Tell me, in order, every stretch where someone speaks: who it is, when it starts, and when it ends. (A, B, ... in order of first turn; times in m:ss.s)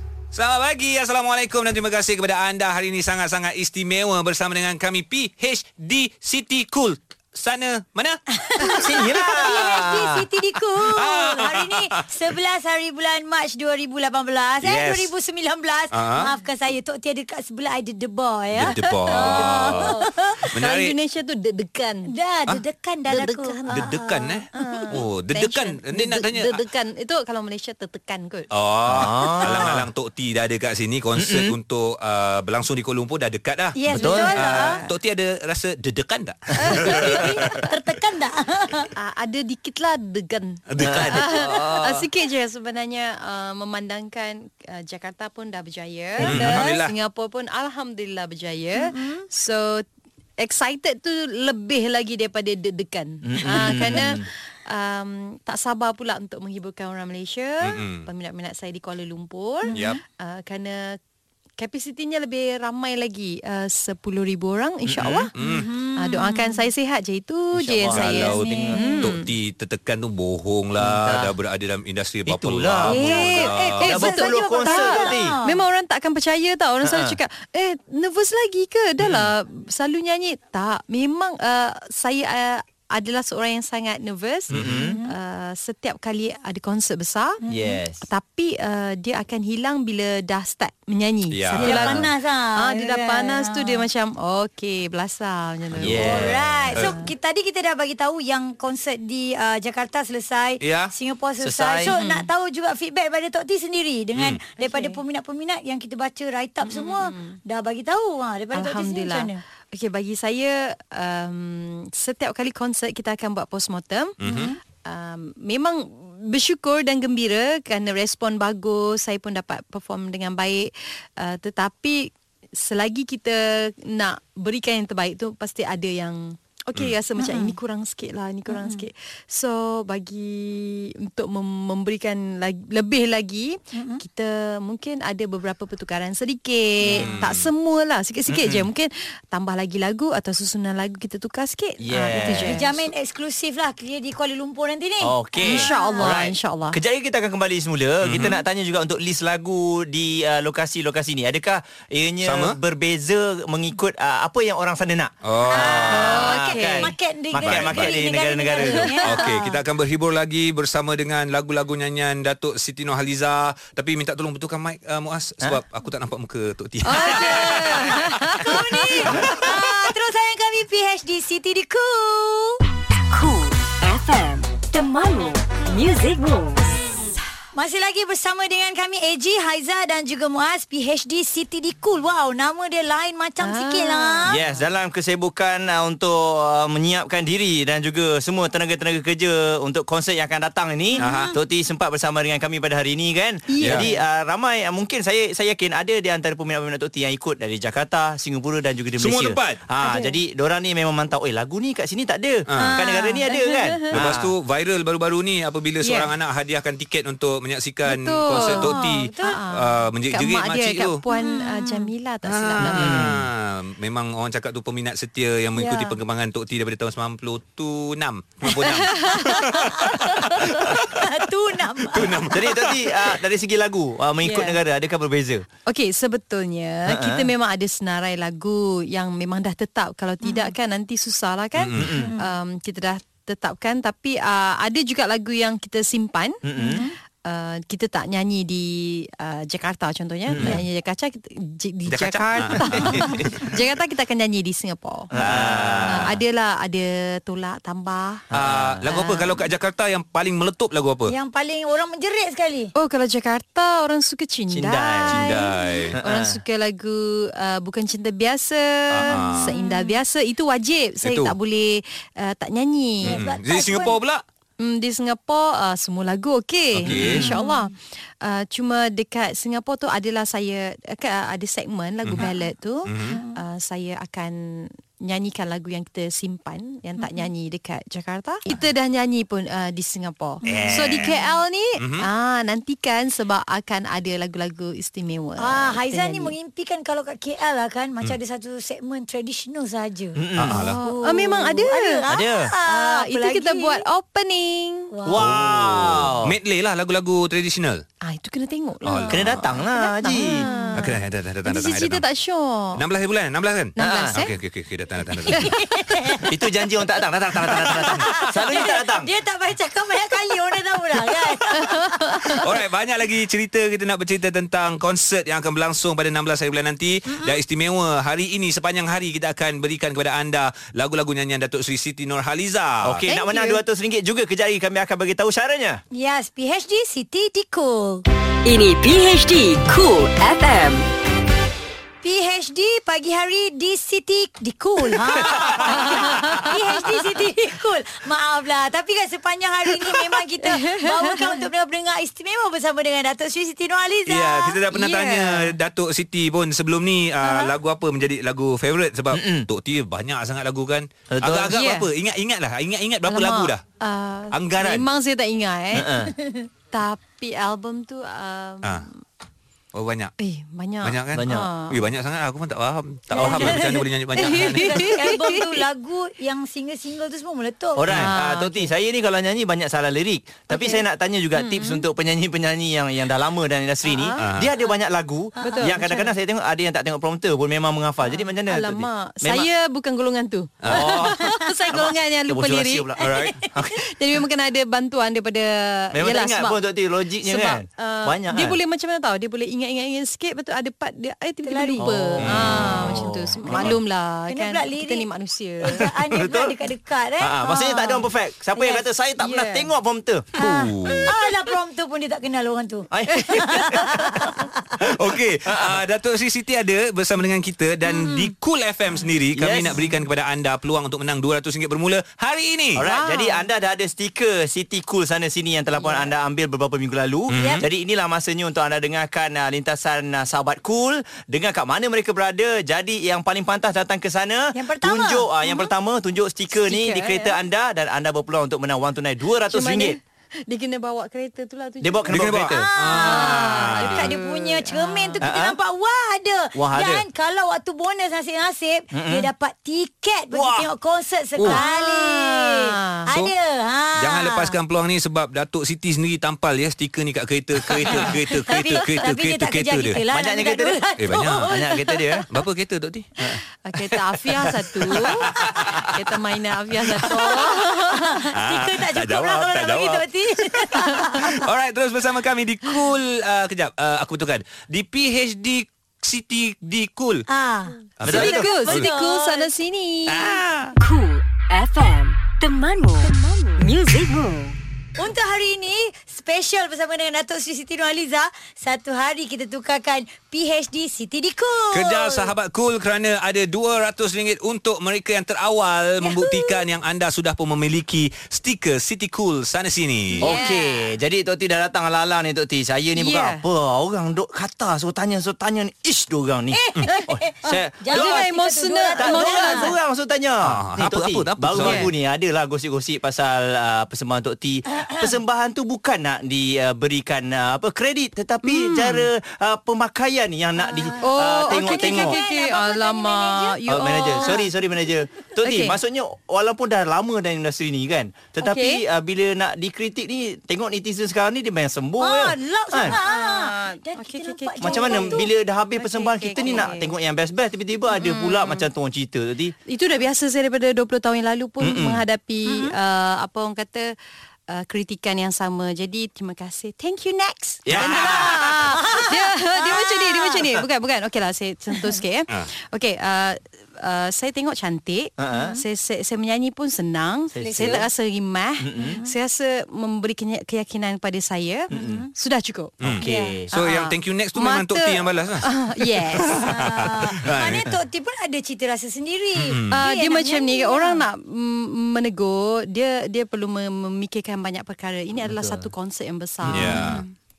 0:00.3-0:08.2 A
0:08.4-0:20.4 B
0:08.7-0:10.3 C
0:11.0-0:11.9 A
0:14.6-0:15.1 A
0:15.9-0:16.3 A
0:18.6-0:20.0 A
0:18.6-0:22.1 D
0:20.5-0:21.0 A
0:22.1-0:24.9 B
0:23.1-0:24.0 D
0:23.7-0:26.6 A
0:24.6-0:28.5 D
0:28.5-0:37.5 A
0:28.9-0:29.9 C
0:29.4-0:29.7 D
0:31.2-0:31.6 C
0:33.8-0:34.8 B
0:33.9-0:34.9 D
0:33.9-0:34.6 C
0:36.6-0:37.6 D
0:36.7-0:38.9 B
0:38.9-0:49.8 D
0:40.7-0:41.5 A
0:40.8-0:42.1 C
0:46.2-0:46.9 A
0:46.2-0:46.7 C
0:48.8-0:49.2 B
0:50.4-1:01.0 D
0:53.2-0:54.3 C
0:57.6-0:58.1 A
0:59.7-1:00.0 B
0:59.7-1:00.0 A
1:01.6-1:05.3 D
1:04.9-1:05.3 C
1:05.4-1:05.7 A
1:05.4-1:06.7 B
1:06.0-1:09.2 D
1:07.5-1:09.0 C
1:07.9-1:13.8 A
1:08.2-1:08.9 B
1:10.8-1:11.3 C
1:12.3-1:15.4 C
1:12.9-1:27.4 D
1:12.9-1:15.6 B
1:16.8-1:17.2 C
1:24.5-1:25.0 C
1:24.8-1:25.1 B
1:27.4-1:27.8 B
1:27.5-1:28.1 C
1:28.0-1:37.0 D
1:31.3-1:32.0 A
1:31.6-1:33.8 B
1:35.7-1:36.0 A
1:35.8-1:36.7 C
1:36.0-1:49.4 B
1:40.6-1:40.9 A
1:41.4-1:41.9 C
1:41.9-1:42.2 D
1:44.6-1:45.0 D
1:46.6-1:47.4 D
1:48.5-2:22.8 D
1:54.2-1:54.5 A
1:54.2-1:54.6 B
2:07.2-2:07.6 B
2:08.5-2:08.8 B
2:13.7-2:14.0 B
2:16.8-2:17.5 A
2:18.3-2:18.7 C
2:21.8-2:22.8 C
2:22.5-2:26.1 B
2:25.0-2:39.0 C
2:25.4-2:26.8 D
2:28.0-2:28.4 A
2:32.2-2:32.6 A
2:35.2-2:36.2 A
2:35.5-2:39.6 B
2:35.9-2:37.0 D
2:37.4-2:37.9 A
2:38.6-2:39.0 D
2:39.0-2:48.4 A
2:46.8-2:49.6 D
2:48.4-2:52.6 B
2:53.1-2:56.6 E
2:57.5-3:04.4 B
3:03.4-3:04.3 D
3:04.3-3:24.3 C
3:11.0-3:11.3 B
3:11.0-3:11.3 A
3:13.5-3:14.0 D
3:19.0-3:19.6 A
3:19.8-3:20.1 D
3:22.5-3:22.8 A
3:22.7-3:23.9 D
3:23.9-3:31.0 A
3:25.8-3:26.1 D
3:27.8-3:33.2 D
3:28.3-3:29.4 B
3:31.1-3:31.9 B
3:32.3-3:41.0 A
3:32.7-3:33.2 C
3:35.6-3:35.8 D
3:38.6-3:40.7 D
3:39.3-3:40.1 B
3:40.7-3:42.3 B
3:41.9-3:42.8 A
3:42.3-3:45.4 C
3:44.2-3:44.6 D
3:45.7-4:05.2 D
3:46.9-3:47.3 C
3:50.2-3:50.5 B
3:51.6-3:51.9 A
3:51.8-3:52.1 C
3:52.0-3:52.3 B
3:56.4-3:56.8 C
3:56.6-3:56.9 B
4:00.3-4:00.6 C
4:01.9-4:03.5 A
4:02.8-4:03.3 C
4:05.1-4:06.2 C
4:05.2-4:06.2 A
4:05.8-4:08.2 D
4:08.3-4:09.3 C
4:08.3-4:11.1 A
4:11.1-4:12.7 B
4:12.8-4:15.2 D
4:14.5-4:15.3 C
4:15.2-4:16.0 A
4:15.3-4:15.8 B
4:16.0-4:16.4 C
4:16.0-4:23.2 D
4:18.9-4:19.5 A
4:19.4-4:20.0 B
4:21.0-4:21.3 A
4:23.0-4:24.0 B
4:23.0-4:24.2 A
4:24.6-4:46.3 D
4:26.8-4:27.3 A
4:26.9-4:27.3 C
4:27.2-4:27.6 B
4:32.0-4:32.3 A
4:32.9-4:33.2 A
4:33.1-4:33.4 B
4:37.0-4:37.3 B
4:40.4-4:41.3 B
4:40.4-4:41.1 A
4:41.8-4:42.1 A
4:45.4-4:50.2 B
4:50.2-4:50.7 C
4:50.4-4:50.8 A
4:50.5-4:52.0 D
4:50.8-4:53.8 B
4:52.1-4:52.5 C
4:52.6-4:54.9 D
4:54.9-4:55.2 B
4:55.1-4:56.4 C
4:55.2-4:57.8 A
4:58.0-5:00.9 D
4:58.8-4:59.4 A
4:59.1-5:00.5 C
5:00.2-5:00.8 B
5:00.8-5:02.0 A
5:01.5-5:02.8 D
5:02.8-5:05.5 A
5:03.8-5:04.3 D
5:03.8-5:04.2 C
5:05.3-5:06.3 B
5:05.3-5:06.2 D
5:06.3-5:09.1 C
5:07.6-5:07.9 A
5:07.8-5:12.3 B
5:11.5-5:12.4 D
5:12.4-5:23.0 A
5:17.1-5:17.4 B
5:22.8-5:25.8 C
5:23.1-5:23.6 D
5:25.9-5:28.0 B
5:28.4-5:30.9 E
5:32.0-5:44.6 B
5:35.7-5:36.9 D
5:40.4-5:41.5 D
5:44.1-5:53.6 A
5:44.7-5:45.5 D
5:49.1-5:49.5 C
5:51.1-5:51.7 C
5:51.5-5:51.9 D
5:53.1-5:56.1 D
5:54.3-5:54.8 A
5:55.7-5:56.1 C
5:56.7-5:59.0 D
5:59.7-6:00.1 A
6:00.2-6:01.8 D
6:00.8-6:05.0 A
6:01.1-6:01.5 C
6:03.1-6:03.6 C
6:03.2-6:03.7 B
6:03.2-6:03.5 D
6:04.2-6:05.6 D
6:04.3-6:07.8 B
6:07.8-6:19.5 C
6:07.9-6:08.7 D
6:10.5-6:10.8 D
6:11.4-6:11.8 D
6:13.9-6:14.2 D
6:14.2-6:14.5 A
6:15.4-6:15.7 B
6:15.4-6:16.1 D
6:18.1-6:23.0 D
6:20.6-6:21.0 A
6:20.6-6:23.8 C
6:23.0-6:23.3 A
6:23.7-6:26.6 D
6:25.9-6:28.6 C
6:27.2-6:35.9 D
6:31.4-6:31.9 B
6:31.8-6:33.8 C
6:32.2-6:32.8 A
6:34.3-6:35.1 B
6:35.6-6:38.0 B
6:35.8-6:36.6 C
6:37.2-6:40.3 C
6:39.2-6:39.7 D
6:40.4-6:41.1 A
6:40.4-6:44.6 B
6:42.9-6:43.8 C
6:43.6-6:44.1 D
6:44.8-6:45.8 C
6:44.8-6:52.8 A
6:49.4-6:49.9 C
6:52.8-7:10.0 C
6:52.8-6:53.4 D
6:57.3-6:57.7 A
6:57.4-6:57.6 B
7:04.5-7:05.3 B
7:06.5-7:07.4 D
7:09.5-7:12.2 D
7:11.8-7:12.7 C
7:12.1-7:14.2 A
7:12.6-7:24.6 B
7:12.9-7:15.2 D
7:15.2-7:15.6 C
7:16.6-7:17.1 C
7:18.9-7:19.3 C
7:20.3-7:20.7 C
7:21.5-7:23.1 D
7:24.0-7:30.0 A
7:27.7-7:28.2 C
7:28.5-7:31.9 B
7:30.1-7:30.8 C
7:31.0-7:31.5 A
7:31.4-7:32.3 C
7:32.3-7:33.1 A
7:33.6-7:38.2 D
7:35.6-7:35.8 C
7:37.1-7:41.4 B
7:38.3-7:40.1 A
7:41.2-7:47.2 A
7:47.3-7:49.5 B
7:48.0-7:48.9 A
7:48.0-7:48.5 C
7:48.1-7:50.4 D
7:50.1-7:50.4 A
7:50.2-7:50.7 C
7:50.8-7:54.6 E
7:55.0-8:02.3 B
8:01.7-8:10.3 A
8:06.0-8:06.6 B
8:10.2-8:10.6 D
8:10.2-8:18.3 C
8:10.2-8:10.6 B
8:13.0-8:13.4 D
8:16.5-8:19.8 B
8:16.9-8:19.7 D
8:19.0-8:32.2 C
8:20.4-8:21.9 A
8:21.6-8:21.9 D
8:28.4-8:29.1 D
8:30.6-8:34.4 B
8:31.0-8:34.5 D
8:33.7-8:43.0 C
8:35.4-8:35.8 D
8:38.4-8:38.8 D
8:42.0-8:45.3 B
8:42.8-8:45.2 D
8:44.6-8:49.6 C
8:45.8-8:46.9 D
8:46.4-8:46.7 B
8:47.9-8:48.7 D
8:49.7-8:54.0 D
8:51.6-8:52.0 C
8:52.5-8:52.7 B
8:54.5-9:12.8 D
8:57.7-8:58.8 C
8:57.7-8:58.2 A
8:58.4-9:00.4 B
9:05.2-9:05.6 C
9:05.3-9:05.6 B
9:07.3-9:07.9 C
9:07.4-9:07.8 B
9:08.6-9:09.0 C
9:08.8-9:09.1 B
9:11.7-9:12.1 C
9:11.7-9:12.1 B
9:12.8-9:17.7 A
9:12.8-9:13.5 C
9:13.0-9:13.4 B
9:13.5-9:16.8 D
9:16.4-9:21.0 B
9:19.4-9:19.8 A
9:19.7-9:27.1 D
9:25.3-9:25.7 C
9:26.4-9:26.9 C
9:26.5-9:27.0 A
9:26.8-9:27.0 B